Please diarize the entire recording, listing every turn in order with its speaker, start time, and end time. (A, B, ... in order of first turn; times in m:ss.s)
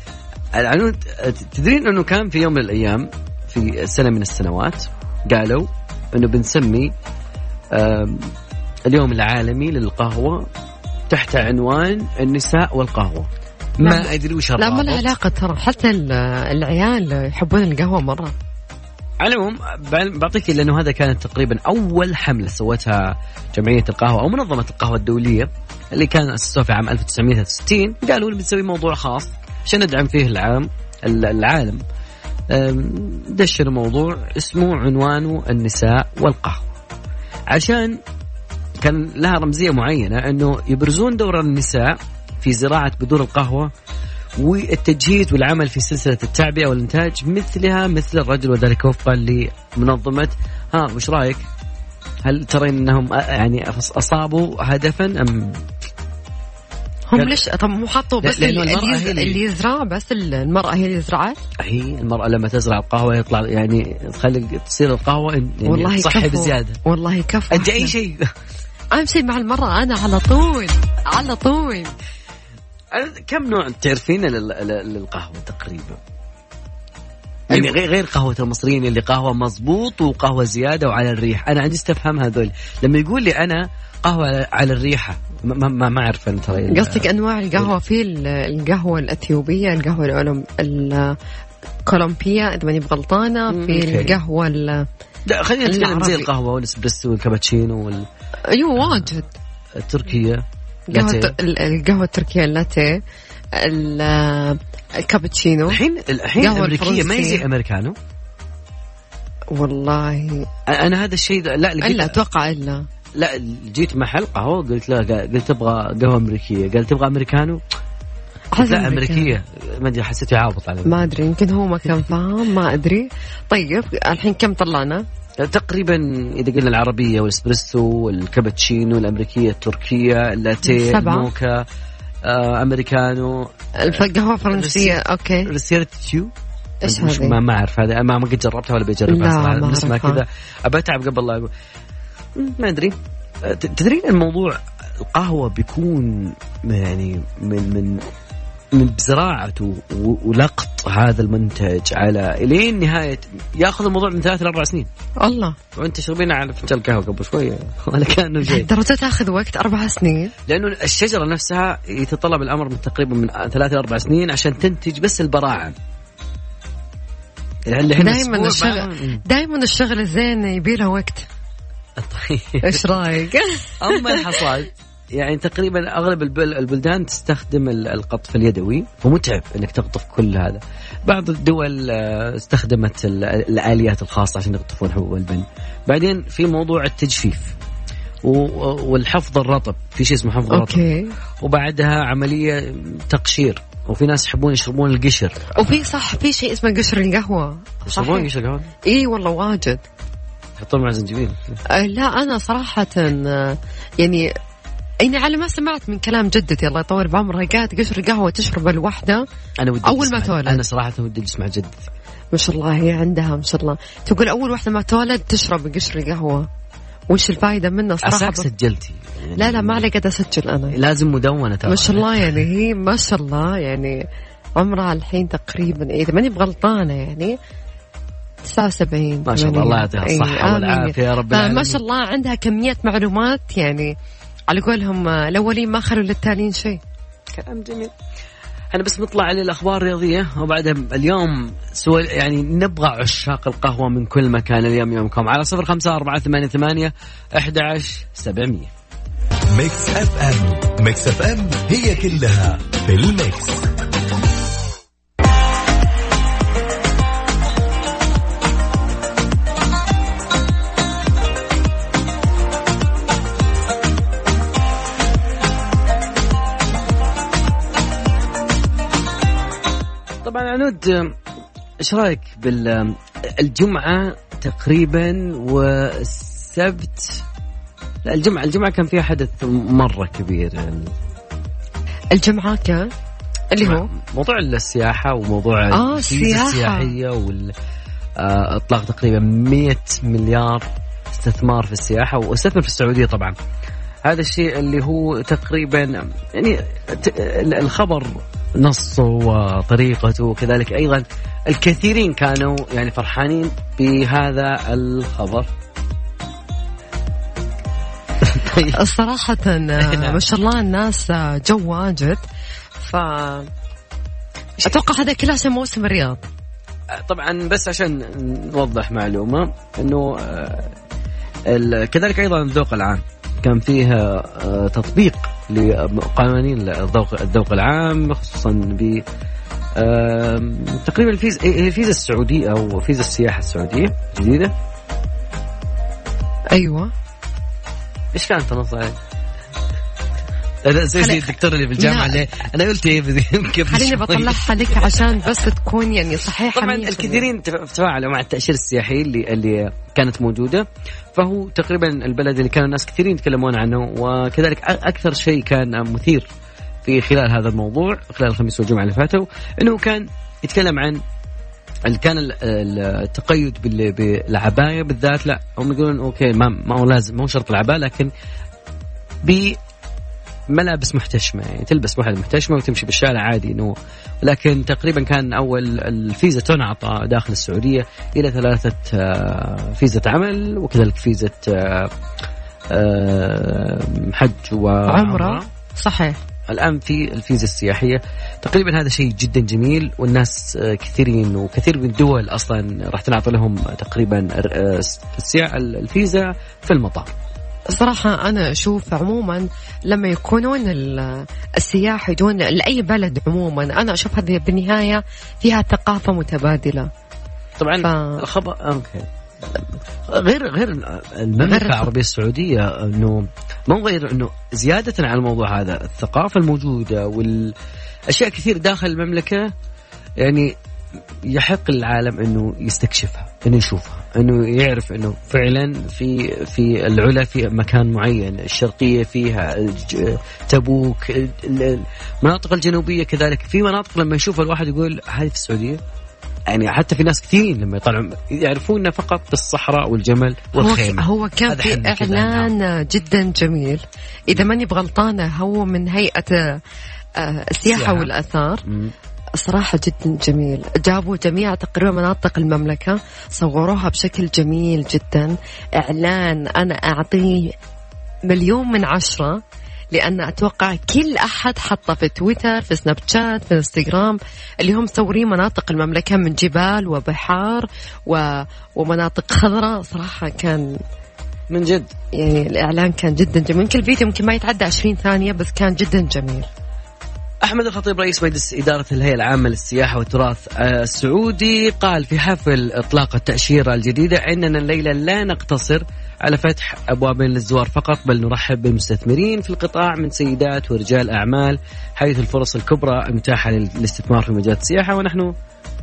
0:00.6-0:06.9 A
0:07.7-0:08.3 A
0:08.9-0:10.5 A
0:11.1-0:15.1 A
0:13.8-0:18.3 B
0:19.2-0:31.8 A
0:32.5-0:36.7 A
0:37.5-0:38.0 A
0:38.8-0:43.7 A
0:44.4-0:51.5 A
0:52.2-0:55.6 A
0:57.1-1:01.4 B
0:58.2-0:59.4 A
1:01.6-1:06.8 A
1:05.6-1:07.9 B
1:07.5-1:08.3 A
1:08.9-1:11.9 B
1:12.9-1:16.0 A
1:17.5-1:27.7 A
1:26.7-1:31.1 B
1:31.9-1:34.9 B
1:33.5-1:34.2 A
1:35.3-1:38.1 A
1:35.6-1:36.3 B
1:38.5-1:39.4 B
1:39.8-1:41.3 A
1:40.9-1:43.0 B
1:43.6-1:45.8 B
1:45.7-1:48.0 A
1:46.4-1:47.4 B
1:49.5-1:50.5 B
1:50.7-1:52.2 A
1:51.8-1:52.9 B
1:53.2-1:57.6 A
1:58.5-1:59.4 B
1:58.6-2:01.0 A
2:00.9-2:05.0 B
2:05.4-2:11.6 A
2:10.6-2:11.3 B
2:12.2-2:16.3 A
2:13.8-2:15.5 B
2:16.8-2:17.4 B
2:16.9-2:21.5 A
2:19.1-2:20.2 B
2:22.4-2:28.0 A
2:28.7-2:34.9 A
2:35.2-2:35.6 B
2:35.8-2:38.7 A
2:38.4-2:40.3 B
2:40.5-2:45.8 A
2:47.7-2:49.2 A
2:48.0-2:51.3 B
2:52.0-2:52.8 A
2:52.6-2:54.4 B
2:53.8-3:07.5 A
3:08.2-3:10.9 A
3:10.5-3:11.1 B
3:11.4-3:15.5 A
3:15.6-3:18.3 B
3:17.9-3:18.7 A
3:18.8-3:19.8 B
3:20.6-3:21.6 A
3:21.7-3:24.3 B
3:25.0-3:29.2 B
3:29.6-3:31.9 A
3:29.8-3:30.6 B
3:32.3-3:36.5 B
3:37.1-3:38.5 B
3:38.0-3:39.9 A
3:39.4-3:40.8 B
3:40.7-3:42.4 A
3:41.7-3:44.0 B
3:44.6-3:47.4 B
3:48.4-3:53.9 B
3:49.3-3:51.8 A
3:54.5-3:56.8 B
3:57.4-3:57.9 A
3:58.7-4:08.7 A
4:09.5-4:13.7 C
4:30.2-4:31.1 A
4:31.8-4:37.2 A
4:38.0-4:40.9 A
4:42.1-4:42.9 B
4:43.5-4:43.9 B
4:43.6-4:47.5 A
4:45.7-4:46.9 B
4:48.2-4:53.4 A
4:54.0-5:05.5 A
5:08.2-5:08.8 A
5:08.7-5:12.2 B
5:09.8-5:10.2 A
5:12.8-5:13.5 B
5:14.6-5:16.2 B
5:16.9-5:20.7 A
5:21.5-5:29.0 A
5:29.8-5:34.5 A
5:36.5-5:36.9 B
5:38.1-5:39.0 A
5:40.6-5:45.1 A
5:41.0-5:42.2 B
5:43.7-5:47.3 B
5:46.5-5:56.3 A
5:56.8-6:01.0 A
6:01.9-6:08.1 A
6:09.2-6:09.6 A
6:10.5-6:21.9 A
6:22.7-6:25.5 A
6:24.9-6:26.2 B
6:26.5-6:37.1 A
6:37.7-6:46.9 B
6:47.6-6:57.5 A
6:47.8-6:48.2 B
6:51.4-6:51.9 B
6:58.1-6:59.5 A
7:00.2-7:00.5 A
7:01.3-7:15.8 A
7:16.5-7:22.5 A
7:20.6-7:26.6 B
7:27.2-7:28.6 B
7:27.7-7:28.1 A
7:28.7-7:28.9 A
7:29.4-7:37.6 B
7:38.3-7:39.4 B
7:39.9-7:50.8 B
7:51.5-7:51.9 A
7:52.1-7:56.5 B
7:57.4-8:15.3 A